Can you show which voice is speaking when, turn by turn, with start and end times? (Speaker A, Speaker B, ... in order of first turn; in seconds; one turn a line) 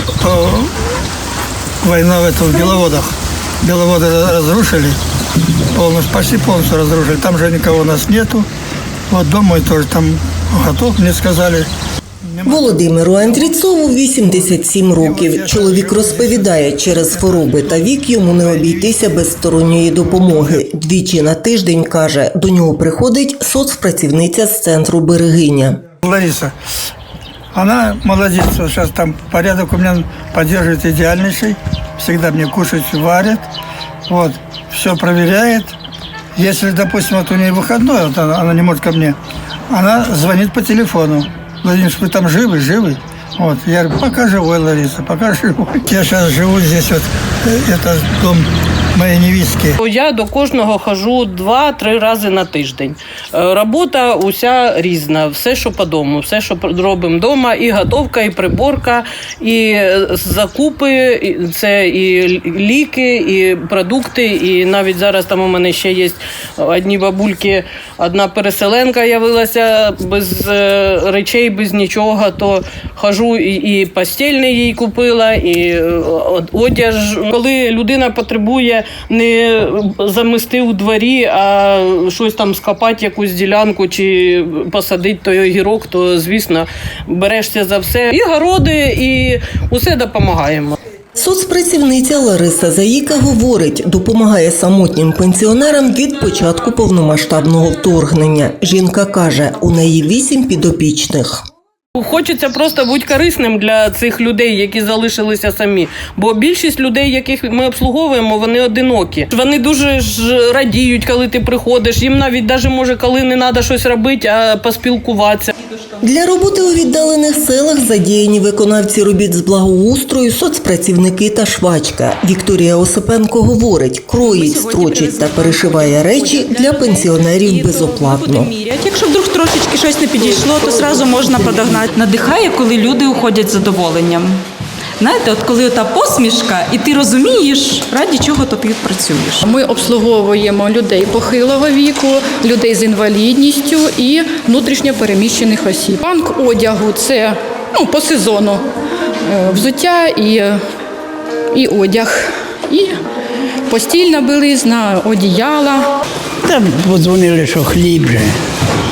Speaker A: 0.2-0.7
Speaker A: 1.8-5.0
Speaker A: 5.7-8.5
Speaker A: 9.1-11.7
Speaker A: 12.3-19.0
Speaker B: 12.4-25.8
Speaker A: 20.0-20.6
Speaker A: 26.0-26.5
Speaker A: 27.5-33.5
Speaker A: 34.1-35.8
Speaker A: 36.4-39.2
Speaker A: 39.7-49.8
Speaker C: 49.8-90.8
Speaker B: 91.2-101.4
Speaker C: 102.0-115.5
Speaker B: 116.0-128.5
Speaker D: 124.2-134.4
Speaker D: 135.0-139.5
Speaker E: 139.5-148.6
Speaker E: 149.2-150.6
Speaker E: 151.5-153.0
Speaker E: 153.7-155.9
Speaker F: 156.4-158.4